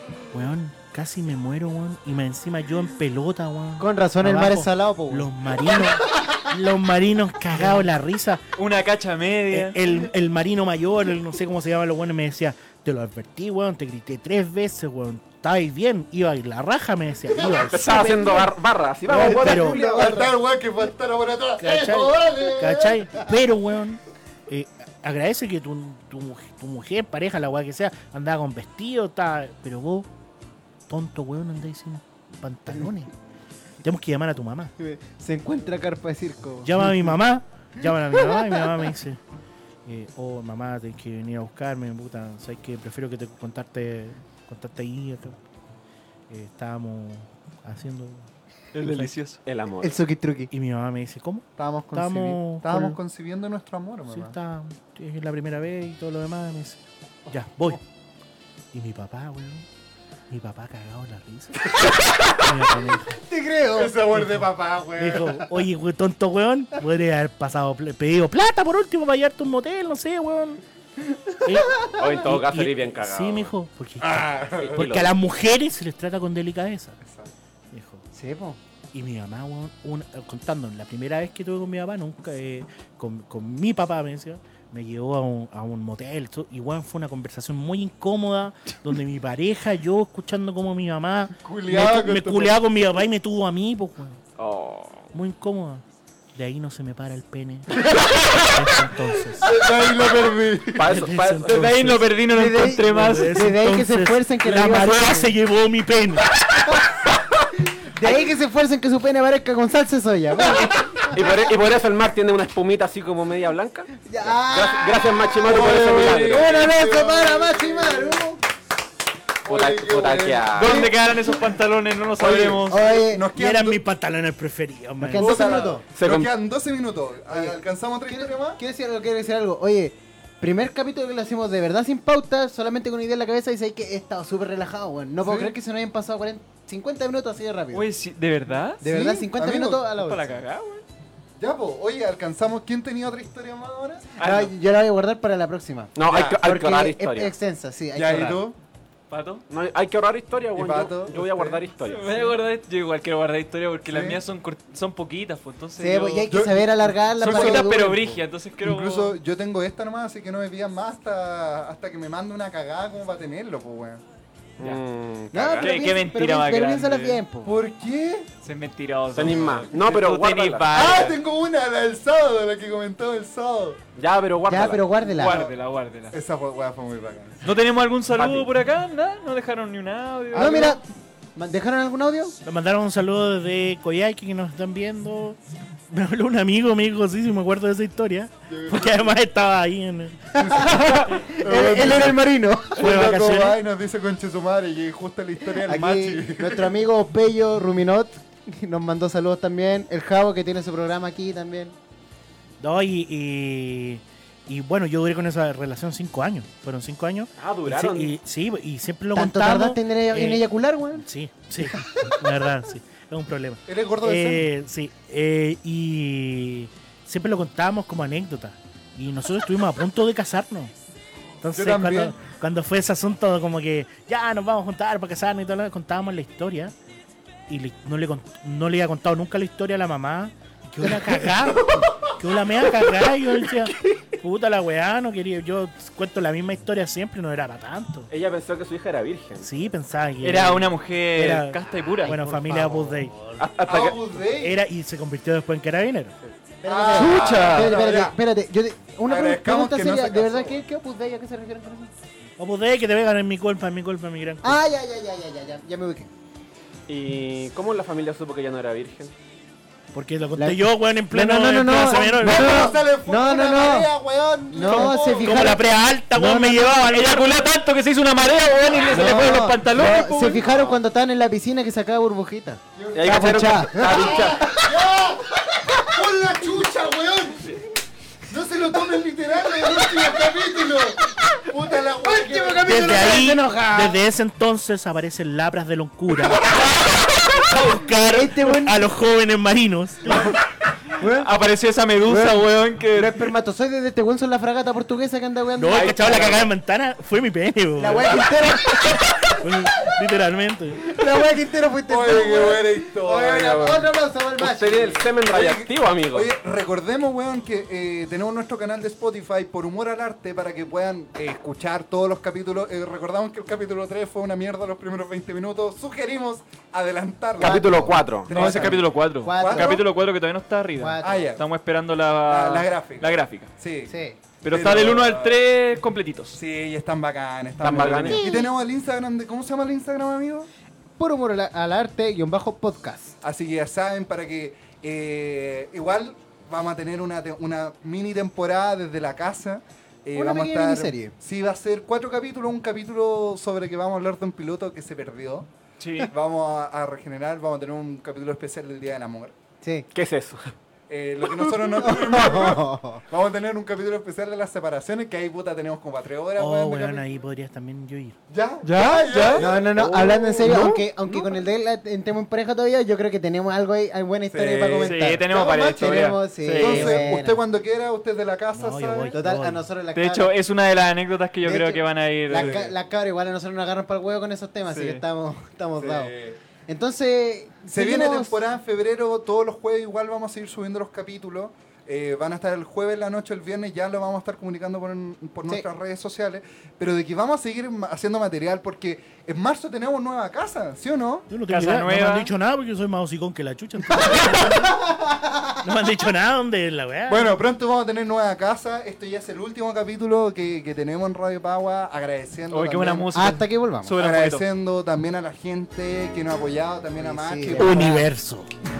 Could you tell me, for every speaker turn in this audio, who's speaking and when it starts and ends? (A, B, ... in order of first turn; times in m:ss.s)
0:00.3-0:08.4 A
0:03.8-0:05.3 B
0:08.6-0:09.8 C
0:09.5-0:18.5 A
0:17.5-0:20.0 D
0:19.0-0:19.8 A
0:19.1-0:20.3 B
0:19.2-0:23.2 E
0:21.6-0:30.1 A
0:30.9-0:33.1 A
0:33.8-0:34.7 A
0:34.8-0:37.0 B
0:36.6-0:39.2 A
0:39.8-0:45.4 A
0:46.3-0:49.2 A
0:48.7-0:49.4 C
0:49.4-0:50.0 D
0:49.8-0:50.5 B
0:50.5-0:53.0 A
0:51.6-0:54.3 E
0:54.1-0:57.8 A
0:58.7-0:59.6 A
1:00.3-1:01.8 A
1:02.4-1:03.2 A
1:03.1-1:04.0 B
1:03.7-1:05.4 E
1:04.1-1:10.6 A
1:11.4-1:17.0 A
1:11.7-1:12.0 B
1:11.9-1:13.5 D
1:14.0-1:14.8 E
1:14.6-1:15.1 D
1:17.0-1:17.3 E
1:17.7-1:18.0 A
1:18.1-1:18.6 B
1:18.9-1:34.2 A
1:31.4-1:32.6 E
1:34.4-1:35.1 D
1:35.1-1:39.5 A
1:37.8-1:38.5 E
1:39.4-1:41.1 E
1:40.8-1:41.9 D
1:40.8-1:42.1 A
1:41.4-1:43.4 C
1:42.3-1:45.3 B
1:42.8-1:46.3 A
1:47.9-1:51.1 B
1:51.0-1:56.6 D
1:54.0-1:58.4 B
1:55.4-1:58.2 E
1:55.5-1:56.4 C
1:59.4-2:01.1 E
1:59.5-2:00.9 D
2:00.5-2:02.8 C
2:02.2-2:03.8 E
2:02.6-2:03.2 B
2:03.3-2:05.4 A
2:05.0-2:05.8 B
2:05.1-2:08.6 E
2:05.9-2:06.3 D
2:07.3-2:17.8 B
2:15.2-2:15.5 E
2:17.7-2:18.8 C
2:18.8-2:20.4 B
2:18.8-2:19.8 E
2:20.0-2:20.8 C
2:21.4-2:24.1 E
2:24.2-2:28.4 B
2:25.9-2:27.3 D
2:26.1-2:26.4 E
2:27.9-2:28.6 E
2:29.1-2:29.4 C
2:29.5-2:32.2 D
2:30.5-2:31.6 E
2:31.8-2:36.3 C
2:33.8-2:34.2 E
2:35.8-2:38.2 B
2:36.3-2:38.0 E
2:37.2-2:39.2 C
2:38.6-2:44.0 E
2:44.6-2:45.7 D
2:45.3-2:47.6 B
2:45.6-2:47.2 C
2:47.4-2:48.3 E
2:48.4-2:51.2 C
2:49.1-2:50.8 D
2:50.7-2:53.8 E
2:54.0-2:54.9 D
2:54.5-2:55.4 B
2:55.0-2:56.2 C
2:55.2-2:55.5 E
2:56.1-2:57.4 E
2:57.4-3:00.8 C
2:58.2-2:58.5 D
3:00.3-3:00.8 E
3:00.3-3:00.8 B
3:01.4-3:02.4 B
3:02.4-3:05.4 A
3:05.9-3:10.4 A
3:08.5-3:09.1 E
3:10.3-3:13.0 B
3:10.4-3:12.2 E
3:12.8-3:16.7 E
3:12.8-3:13.6 A
3:15.6-3:21.8 B
3:22.6-3:40.7 A
3:27.4-3:28.1 D
3:29.1-3:31.0 B
3:33.7-3:34.5 E
3:41.4-3:46.7 A
3:41.5-3:42.1 E
3:47.5-3:58.1 A
3:58.1-3:59.5 D
3:59.4-4:03.4 A
4:00.2-4:02.2 C
4:02.1-4:02.7 B
4:03.4-4:04.0 D
4:03.6-4:04.5 E
4:04.4-4:06.1 A
4:06.6-4:11.9 B
4:06.6-4:08.2 E
4:06.9-4:07.8 C
4:09.0-4:10.6 E
4:12.4-4:14.6 A
4:14.4-4:16.1 B
4:16.9-4:19.1 D
4:19.9-4:22.8 A
4:20.4-4:23.9 B
4:21.9-4:25.6 E
4:24.5-4:26.8 B
4:24.6-4:27.4 A
4:26.7-4:30.5 C
4:28.8-4:29.6 E
4:29.0-4:34.7 B
4:30.4-4:30.8 D
4:32.8-4:37.5 E
4:32.9-4:34.5 D
4:38.3-4:42.8 E
4:39.8-4:40.0 B
4:42.0-4:44.0 B
4:42.6-4:50.4 A
4:46.3-4:46.7 E
4:48.0-4:48.9 B
4:51.0-4:51.3 B
4:51.0-4:53.2 C
4:52.0-4:56.0 B
4:55.5-4:58.4 A
4:55.7-4:56.5 D
4:57.8-4:59.0 B
4:58.9-5:00.8 A
5:00.8-5:05.0 B
5:01.9-5:03.8 E
5:04.4-5:06.3 D
5:05.3-5:19.8 E
5:17.4-5:18.5 D
5:17.4-5:19.8 B
5:18.3-5:23.5 C
5:20.8-5:21.4 B
5:21.0-5:21.4 E
5:22.2-5:23.9 E
5:23.9-5:24.2 B
5:24.4-5:26.4 C
5:24.5-5:25.4 E
5:26.3-5:30.5 E
5:27.6-5:28.3 D
5:28.1-5:28.5 B
5:31.0-5:33.2 B
5:33.2-5:45.5 E
5:40.1-5:41.1 B
5:45.8-5:46.1 C
5:46.0-5:49.3 E
5:49.6-5:49.9 B
5:49.9-5:50.5 D
5:50.9-5:57.0 E
5:51.7-5:53.0 B
5:56.4-5:58.2 A
5:58.3-6:00.7 E
5:58.6-5:59.4 C
5:59.4-6:07.4 B
5:59.8-6:00.5 D
6:00.4-6:00.8 C
6:04.3-6:06.1 E
6:04.8-6:07.1 C
6:06.6-6:09.2 E
6:08.5-6:09.6 A
6:09.1-6:10.3 B
6:09.9-6:12.7 C
6:11.4-6:16.1 B
6:12.3-6:12.7 E
6:14.7-6:15.0 C
6:15.8-6:16.4 E
6:16.7-6:18.4 B
6:17.7-6:31.3 E
6:31.3-6:34.8 A
6:31.5-6:32.3 C
6:34.0-6:34.5 E
6:35.6-6:37.4 A
6:37.1-6:43.1 E
6:42.5-6:44.5 C
6:43.1-6:43.9 B
6:44.0-6:47.9 E
6:47.0-6:48.1 B
6:47.5-6:48.5 A